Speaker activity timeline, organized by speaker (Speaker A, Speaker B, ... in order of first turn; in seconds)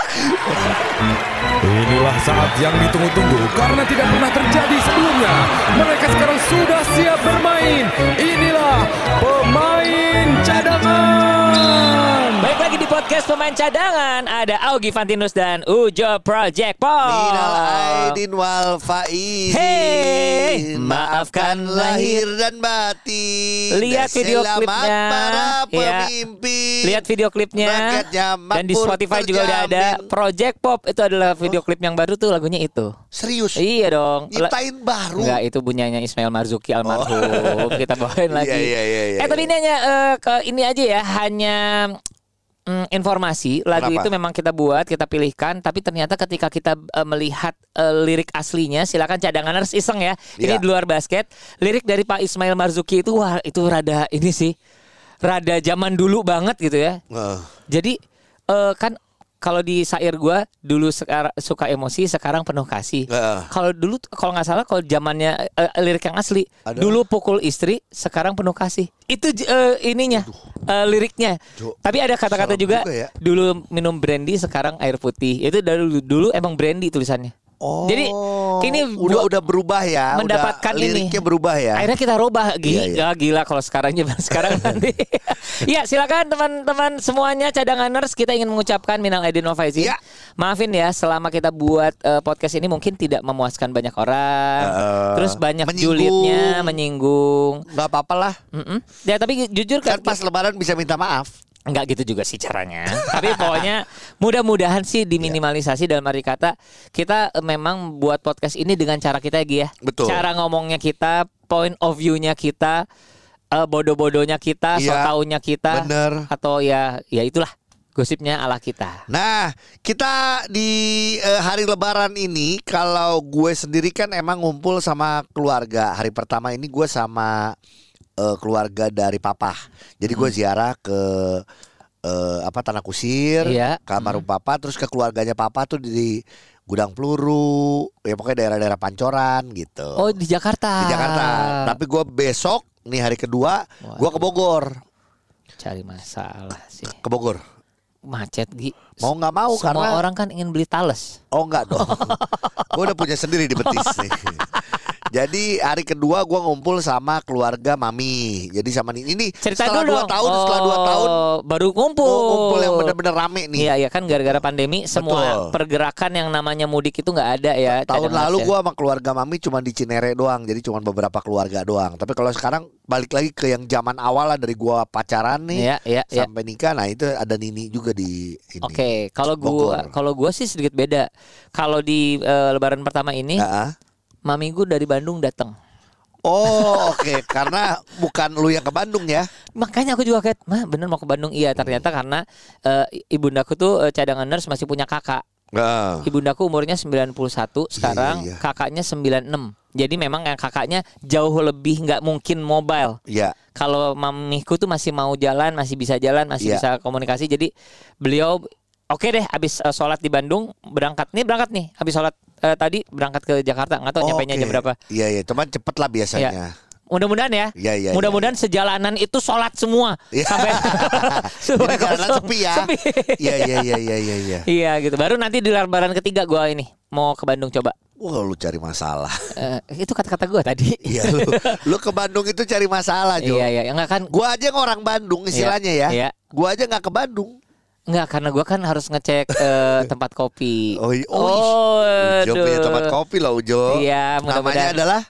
Speaker A: 0.3-0.7, 17.0-27.0, 27.6-30.1, 33.1-33.6, 34.3-35.4, 36.8-39.5, 43.8-44.1, 50.4-50.6, 57.1-57.5, 63.1-63.5, 66.7-67.0, 71.6-73.1, 77.6-81.9, 82.6-83.1, 84.3-84.8, 94.6-96.8, 97.7-98.3, 99.8-101.3, 102.9-103.7, 109.8-110.2, 114.7-115.1, 115.7-116.3, 119.1-127.5, 128.2-131.4, 132.1-140.2, 140.8-144.7, 147.0-147.4, 149.0-150.0, 151.3-152.2, 152.7-154.4, 155.1-161.2, 162.0-164.4, 164.9-165.6, 167.7-179.9, 183.4-183.7, 186.3-189.3, 191.6-191.8, 195.5-196.1, 197.7-198.4, 203.1-203.3, 206.4-206.7, 214.0-216.5, 217.6-218.3, 220.1-224.5, 228.0-229.4, 230.8-233.5, 234.1-237.3, 240.7-245.0
Speaker B: 1.6-12.5
Speaker C: 12.4-18.2, 19.5-22.2, 23.7-26.1, 26.8-32.9, 33.6-34.5, 35.2-42.0, 42.7-54.5, 55.2-57.0, 57.7-58.0, 58.5-77.3, 77.8-79.3, 80.1-81.2, 81.8-97.6, 98.5-100.2, 101.7-112.8, 113.5-119.0, 130.1-130.3, 133.4-134.2, 140.0-141.8, 143.8-144.2, 145.6-147.0, 148.0-154.8, 159.4-162.9, 163.6-168.5, 175.5-176.3, 178.6-183.5, 184.3-185.5, 186.4-187.4, 189.6-195.2, 196.0-203.0, 203.5-207.5, 208.0-208.4, 208.9-214.8, 216.9-227.7, 229.3-231.6, 233.2-234.1, 235.3-236.1, 237.9-242.9, 243.7-244.8